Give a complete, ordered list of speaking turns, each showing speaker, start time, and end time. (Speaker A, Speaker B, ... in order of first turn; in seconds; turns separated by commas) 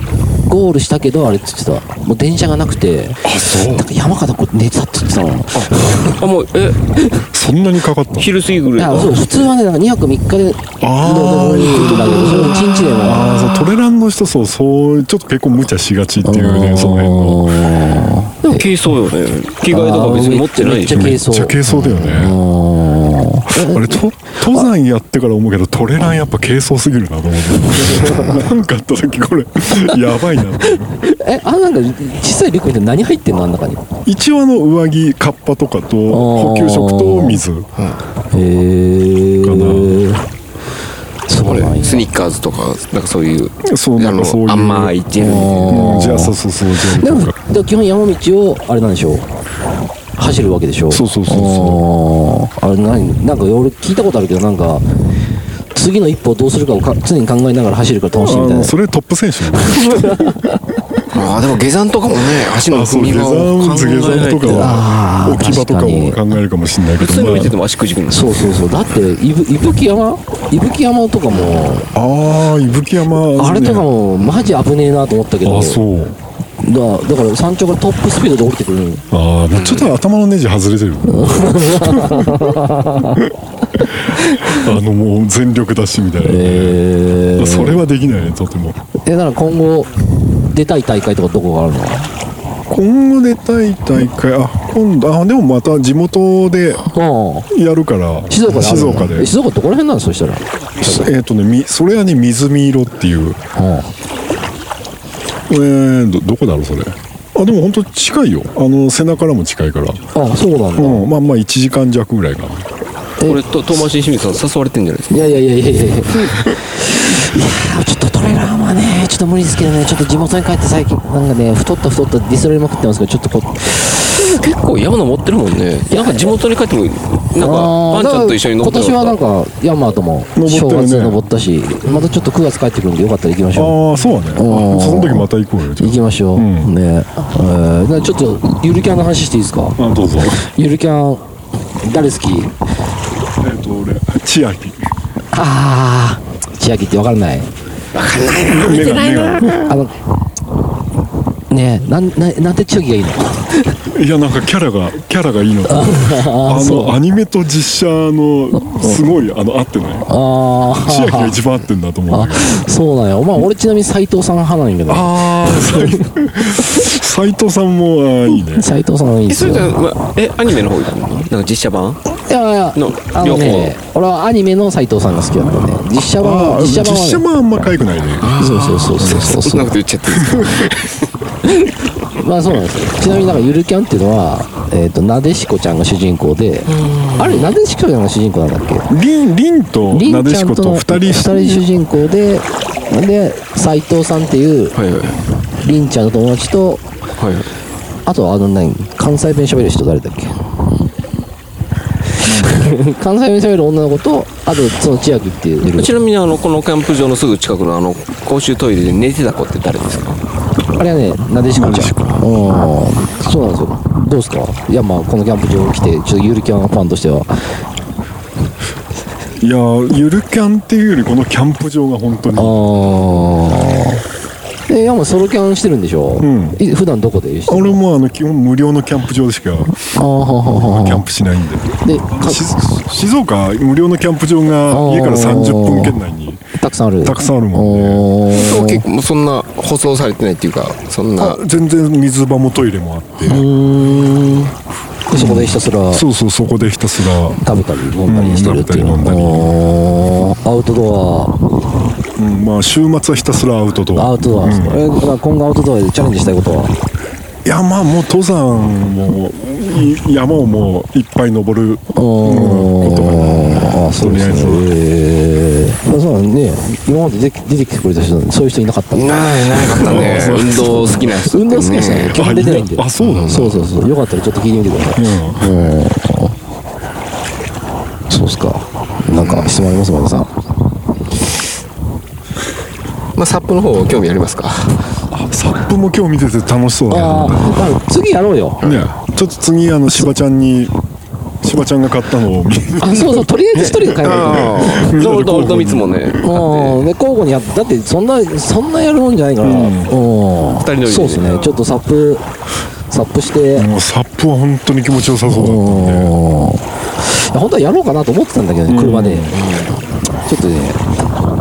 Speaker A: 0.5-6.2, Speaker B: 3.2-3.9, Speaker C: 5.6-6.8, Speaker B: 7.3-8.3, Speaker C: 8.2-9.5, Speaker A: 8.8-13.5, Speaker B: 10.8-17.9, Speaker C: 12.3-13.2, Speaker A: 16.2-18.7, Speaker C: 18.4-21.1, Speaker A: 19.7-24.7, Speaker B: 20.9-22.4, Speaker B: 23.5-31.0, Speaker A: 27.8-28.4, Speaker A: 31.0-33.8, Speaker B: 34.0-37.7, Speaker A: 36.1-37.4, Speaker A: 38.3-40.3, Speaker B: 39.4-40.1, Speaker A: 41.3-42.1, Speaker C: 41.4-45.8, Speaker B: 43.6-45.0, Speaker A: 45.2-49.3, Speaker B: 45.6-47.4, Speaker A: 50.2-54.8, Speaker B: 50.9-51.8, Speaker A: 55.7-58.7, Speaker B: 58.2-60.4, Speaker A: 59.7-60.6, Speaker C: 61.1-64.8, Speaker B: 62.7-67.5, Speaker A: 64.4-66.2, Speaker C: 67.0-68.6, Speaker A: 68.1-71.9, Speaker B: 71.9-73.9, Speaker A: 73.3-75.8, Speaker B: 75.4-76.2, Speaker A: 76.6-79.0, Speaker B: 79.1-82.5, Speaker C: 79.5-79.9, Speaker A: 81.0-83.2, Speaker B: 83.1-86.8, Speaker A: 84.2-84.6, Speaker A: 86.2-87.8, Speaker B: 87.3-88.8, Speaker A: 89.0-89.9, Speaker A: 90.5-92.1, Speaker B: 92.7-96.8, Speaker A: 96.9-97.5, Speaker B: 97.5-99.3, Speaker A: 98.3-101.1, Speaker B: 100.8-103.4, Speaker A: 103.5-103.9, Speaker B: 105.5-110.0, Speaker A: 110.1-111.1, Speaker B: 110.8-112.7, Speaker C: 113.2-115.3, Speaker A: 115.1-124.1, Speaker C: 124.1-129.2, Speaker A: 125.9-126.3, Speaker A: 127.4-133.8, Speaker B: 130.3-131.2, Speaker B: 133.5-136.7, Speaker A: 134.3-135.3, Speaker A: 135.8-141.2, Speaker B: 139.8-140.4, Speaker A: 141.8-142.5, Speaker B: 143.4-144.8, Speaker A: 145.3-147.5, Speaker C: 147.9-149.7, Speaker B: 148.4-149.6, Speaker A: 149.4-149.9, Speaker A: 151.5-153.8, Speaker B: 153.9-160.1, Speaker A: 155.7-156.9, Speaker A: 160.1-161.4, Speaker B: 160.8-162.6, Speaker A: 162.1-166.0, Speaker B: 164.9-168.7, Speaker A: 168.5-169.7, Speaker C: 169.3-172.0, Speaker A: 172.3-177.2, Speaker C: 172.7-173.7, Speaker B: 176.2-179.4, Speaker C: 178.2-181.0, Speaker A: 178.4-179.7, Speaker B: 180.1-180.7, Speaker A: 182.2-188.9, Speaker C: 186.7-187.5, Speaker B: 188.9-191.6, Speaker A: 189.9-194.8, Speaker C: 194.7-195.2, Speaker A: 195.6-196.8, Speaker C: 197.2-197.5, Speaker A: 198.1-200.4, Speaker B: 202.2-202.6, Speaker A: 202.2-205.9, Speaker C: 205.6-210.2, Speaker A: 210.8-217.3, Speaker B: 211.5-212.2, Speaker B: 219.4-222.6, Speaker A: 222.3-224.0, Speaker A: 224.7-227.8, Speaker B: 226.2-226.6, Speaker B: 227.5-229.9, Speaker A: 229.8-231.0, Speaker B: 230.5-236.4, Speaker A: 231.8-232.4, Speaker A: 234.7-236.0, Speaker A: 236.6-238.8, Speaker B: 237.0-238.1, Speaker C: 238.3-241.4, Speaker B: 241.2-243.5, Speaker A: 243.2-244.5, Speaker A: 245.1-246.1, Speaker B: 245.1-247.4, Speaker A: 247.4-251.4, Speaker B: 248.1-249.5, Speaker B: 252.2-254.8, Speaker A: 253.9-256.7, Speaker B: 257.4-264.7, Speaker A: 261.9-276.4, Speaker C: 268.9-272.3, Speaker B: 269.7-271.0, Speaker B: 272.1-273.5, Speaker C: 273.0-273.6, Speaker B: 274.9-275.5, Speaker A: 278.1-280.3, Speaker C: 279.2-279.6, Speaker C: 283.1-284.8, Speaker B: 285.1-287.6, Speaker A: 286.9-288.7, Speaker B: 288.6-290.7, Speaker B: 291.4-293.3, Speaker A: 292.8-294.7, Speaker C: 293.5-296.9, Speaker B: 294.0-296.2, Speaker A: 296.2-302.2, Speaker B: 299.4-299.9, Speaker C: 300.5-301.4, Speaker A: 302.9-303.7, Speaker B: 303.6-306.1, Speaker A: 305.3-309.3, Speaker B: 308.6-309.4, Speaker C: 309.3-309.8, Speaker A: 310.2-310.8